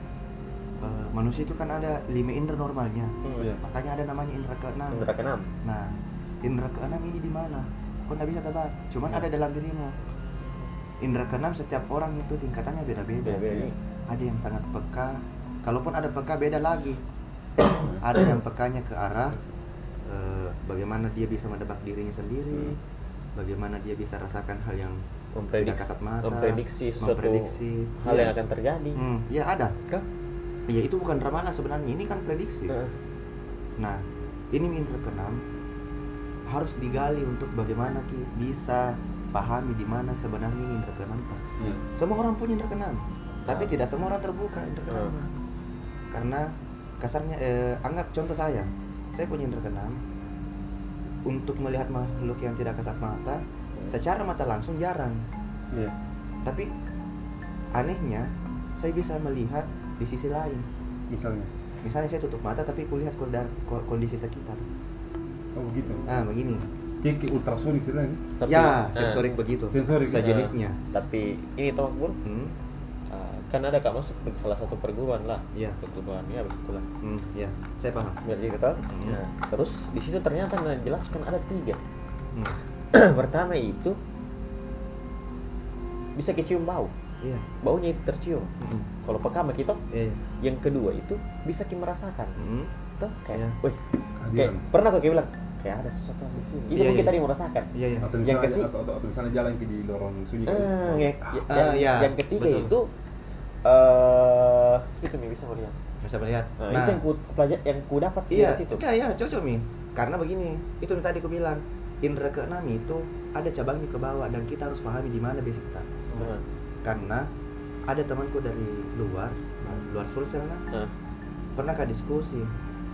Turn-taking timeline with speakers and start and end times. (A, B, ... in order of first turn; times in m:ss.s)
0:00.8-0:05.1 A
0:04.9-0:05.5 B
0:05.6-0:10.0 A
0:10.0-0:10.6 B
0:11.0-0:13.5 A
0:13.2-0:13.8 B
0:14.1-0:17.0 A
0:17.8-0:18.0 C
0:18.0-0:19.4 A
0:20.0-0:22.8 A
0:23.4-0:25.0 A
0:25.3-0:29.0 B
0:25.6-0:28.3 A
0:29.0-0:29.8 A
0:30.7-0:32.7 A
0:32.7-0:32.9 B
0:33.8-0:35.4 A
0:36.5-0:45.3 A
0:43.4-0:43.7 B
0:44.9-0:45.1 B
0:46.1-0:50.0 A
0:51.2-0:55.2 A
0:56.4-0:56.7 A
0:57.7-1:00.6 A
1:01.1-1:01.5 C
1:01.8-1:04.6 A
1:05.5-1:06.1 C
1:06.0-1:06.7 A
1:07.0-1:08.2 C
1:08.4-1:09.2 B
1:08.5-1:10.8 A
1:09.7-1:10.3 C
1:10.1-1:12.2 B
1:12.2-1:12.6 A
1:13.1-1:16.8 B
1:17.0-1:18.2 A
1:18.2-1:21.8 B
1:18.9-1:19.2 A
1:22.9-1:24.0 B
1:26.2-1:26.9 B
1:27.6-1:29.8 B
1:28.6-1:28.9 A
1:29.9-1:30.2 A
1:30.4-1:32.4 B
1:32.4-1:32.7 A
1:33.0-1:37.7 B
1:34.2-1:34.6 C
1:36.7-1:37.1 A
1:37.7-1:38.1 A
1:38.0-1:41.4 C
1:38.2-1:38.7 B
1:40.4-1:42.9 B
1:41.5-1:42.7 A
1:43.6-1:45.8 B
1:46.0-1:47.0 A
1:46.6-1:48.8 B
1:48.3-1:57.3 A
1:56.1-1:56.4 B
1:57.9-2:00.6 A
2:01.6-2:02.5 A